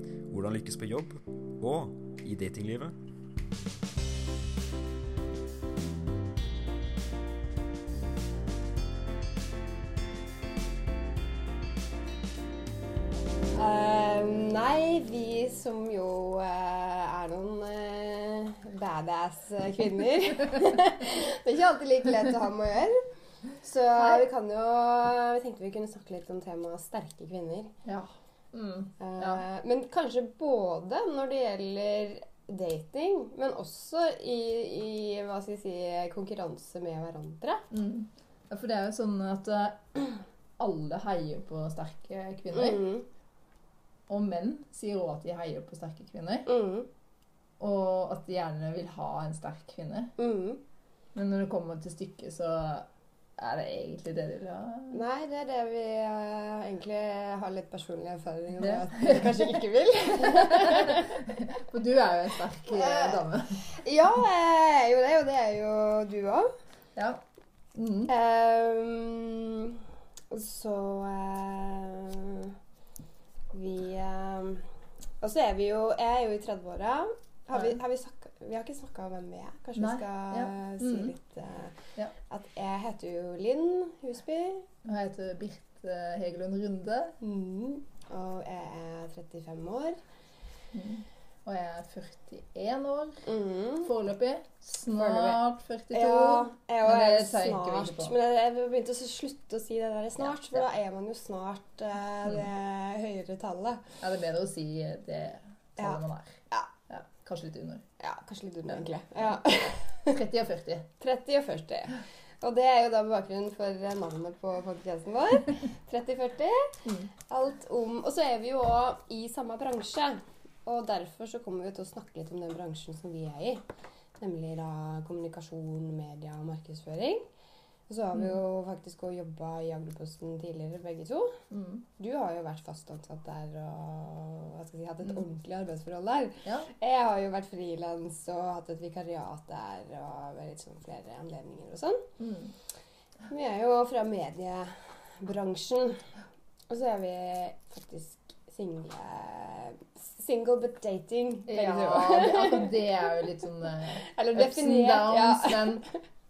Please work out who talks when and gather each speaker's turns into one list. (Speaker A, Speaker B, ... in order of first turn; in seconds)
Speaker A: 0.3-3.0
Speaker B: 13.5-27.7, 29.0-37.7, 42.5-43.1, 46.5-46.9, 50.2-50.6, 54.9-61.2, 62.7-66.5, 68.1-72.6, 73.5-74.7, 75.2-84.7, 87.2-90.0, 93.2-93.9, 94.9-104.0, 105.8-106.7, 108.0-110.2, 111.0-123.6, 124.2-127.3, 127.9-131.4, 132.0-142.1, 143.3-146.1, 146.7-152.8, 154.0-156.0
Speaker C: 24.0-24.2, 27.9-29.4, 37.7-42.8, 44.1-46.5, 47.6-50.1, 51.1-55.0, 58.6-63.6, 67.0-67.2, 67.7-68.1, 79.8-81.1, 84.8-87.2, 90.7-93.2, 93.8-98.1, 100.2-100.7, 104.0-107.8, 110.1-110.9, 116.8-117.1, 128.1-128.4, 131.5-131.8, 136.4-136.7, 142.2-142.5, 151.5-155.8